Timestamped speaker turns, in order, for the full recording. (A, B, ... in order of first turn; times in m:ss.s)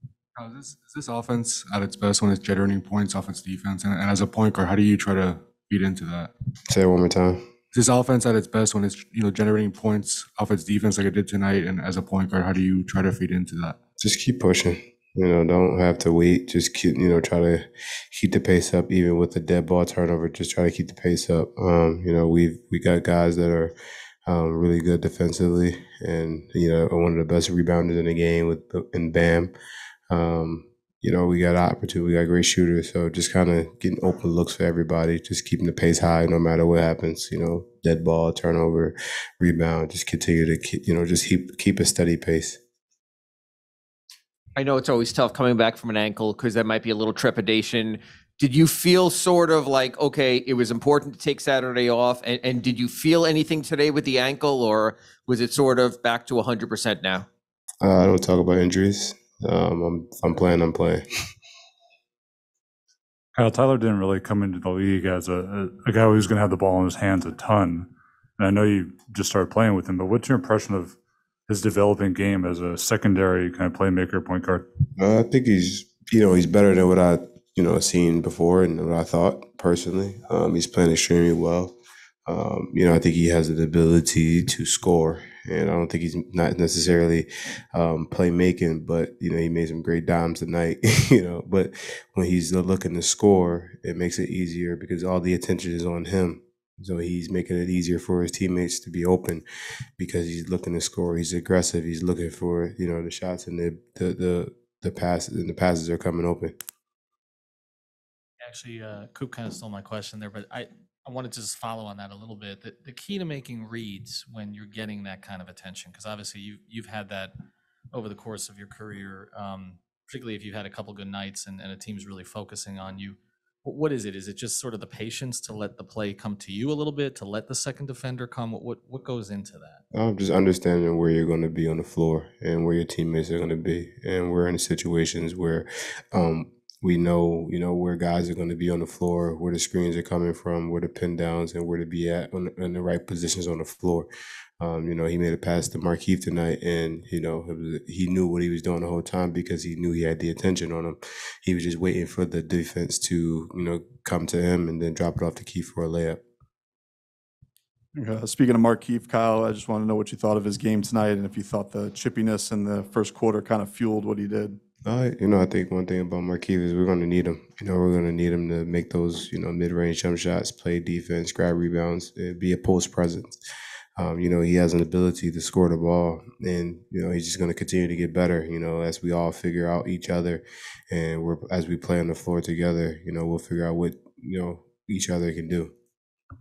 0:00.3-0:06.3 A
0:06.7-0:07.4 B
0:07.7-0:13.8 A
0:14.0-0:23.7 B
0:24.2-0:29.5 B
0:30.1-0:42.6 B
0:44.5-0:57.2 C
0:57.8-1:01.0 B
1:03.3-1:11.0 D
1:11.5-1:14.6 D
1:15.0-1:39.4 B
1:40.0-1:46.6 B
1:48.4-1:57.3 E
1:57.9-2:09.8 E
2:09.9-2:24.1 B
2:24.6-2:36.2 B
2:37.9-2:44.6 F
2:44.8-2:53.4 B
2:54.0-3:05.7 B